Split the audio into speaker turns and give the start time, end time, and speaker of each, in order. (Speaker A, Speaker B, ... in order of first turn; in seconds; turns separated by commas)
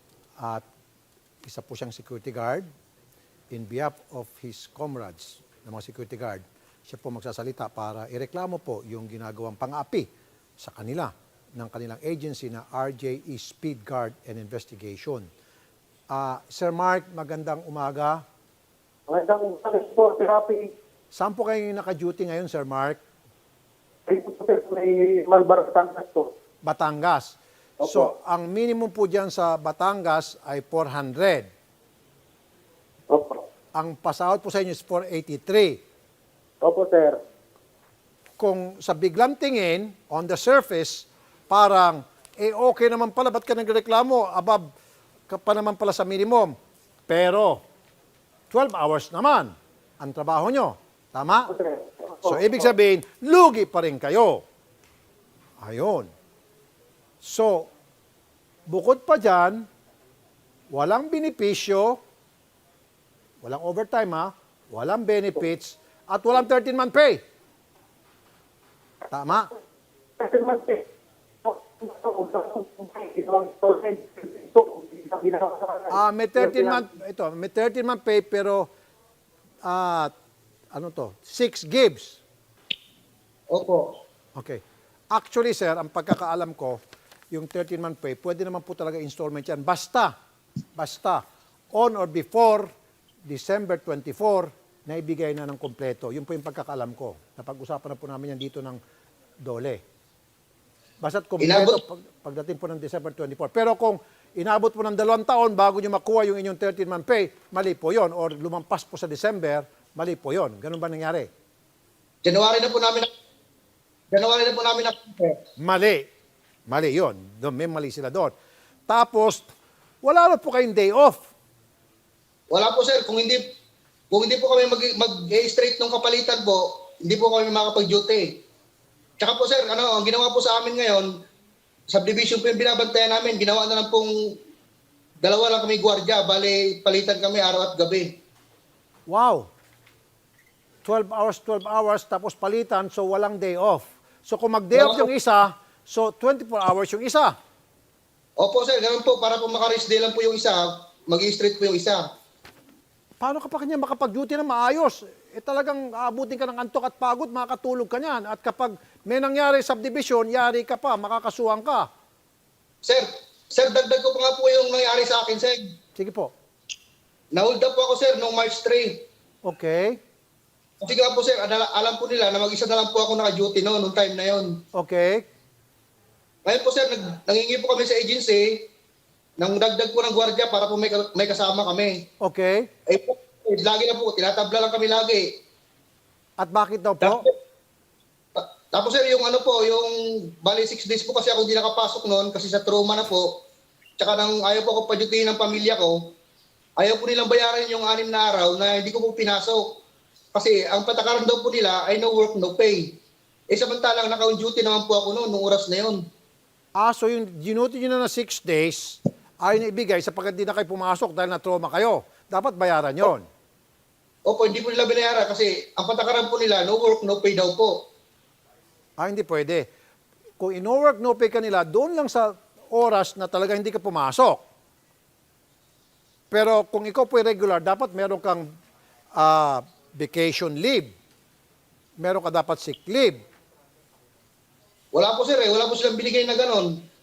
Speaker A: 0.4-0.6, Speaker A: 1.4-2.7, Speaker A: 3.5-10.1, Speaker A: 10.6-15.2, Speaker A: 16.1-18.2, Speaker B: 19.1-20.7, Speaker A: 21.1-23.0, Speaker B: 24.1-26.3, Speaker A: 26.6-31.5, Speaker B: 33.1-33.5, Speaker A: 33.7-35.8, Speaker B: 36.6-37.2, Speaker A: 38.4-44.6, Speaker A: 45.3-46.5, Speaker A: 47.1-47.6, Speaker A: 48.5-51.6, Speaker B: 51.5-52.5, Speaker A: 52.2-54.4, Speaker A: 55.6-56.1, Speaker A: 57.2-57.7, Speaker A: 58.7-59.7, Speaker A: 60.7-62.0, Speaker A: 63.4-67.2, Speaker A: 69.1-69.5, Speaker B: 70.2-70.8, Speaker B: 71.4-76.8, Speaker A: 75.9-78.7, Speaker A: 79.6-80.1, Speaker A: 80.7-82.2, Speaker C: 83.5-84.0, Speaker A: 84.4-84.6, Speaker A: 85.1-86.8, Speaker A: 87.3-90.1, Speaker A: 90.8-92.7, Speaker A: 93.2-98.8, Speaker A: 99.4-99.8, Speaker A: 101.0-111.3, Speaker C: 101.4-101.8, Speaker C: 112.2-113.1, Speaker C: 114.1-115.4, Speaker A: 115.6-116.1, Speaker A: 116.7-118.3, Speaker A: 118.9-119.5, Speaker A: 120.0-121.3, Speaker C: 122.5-123.5, Speaker C: 124.1-128.4, Speaker C: 129.2-131.1, Speaker C: 131.9-134.3, Speaker C: 135.2-138.1, Speaker A: 139.1-139.5, Speaker A: 140.8-147.3, Speaker C: 144.7-145.1, Speaker C: 148.4-152.0, Speaker A: 153.2-161.9, Speaker C: 162.8-165.7, Speaker A: 166.0-166.3, Speaker C: 167.3-169.0, Speaker A: 169.4-170.0, Speaker C: 170.8-174.6, Speaker A: 174.8-175.2, Speaker C: 176.4-178.7, Speaker C: 179.4-182.1, Speaker A: 182.2-182.7, Speaker C: 182.9-185.4, Speaker A: 186.4-187.2, Speaker C: 187.0-187.3, Speaker C: 188.3-193.4, Speaker C: 194.0-196.2, Speaker C: 196.8-199.8, Speaker C: 200.3-203.0, Speaker C: 203.5-206.0, Speaker A: 206.8-213.3, Speaker C: 214.3-217.8, Speaker A: 219.0-219.7, Speaker A: 220.4-224.4, Speaker A: 226.3-228.5, Speaker A: 229.2-230.9, Speaker A: 232.0-233.2, Speaker C: 234.9-236.8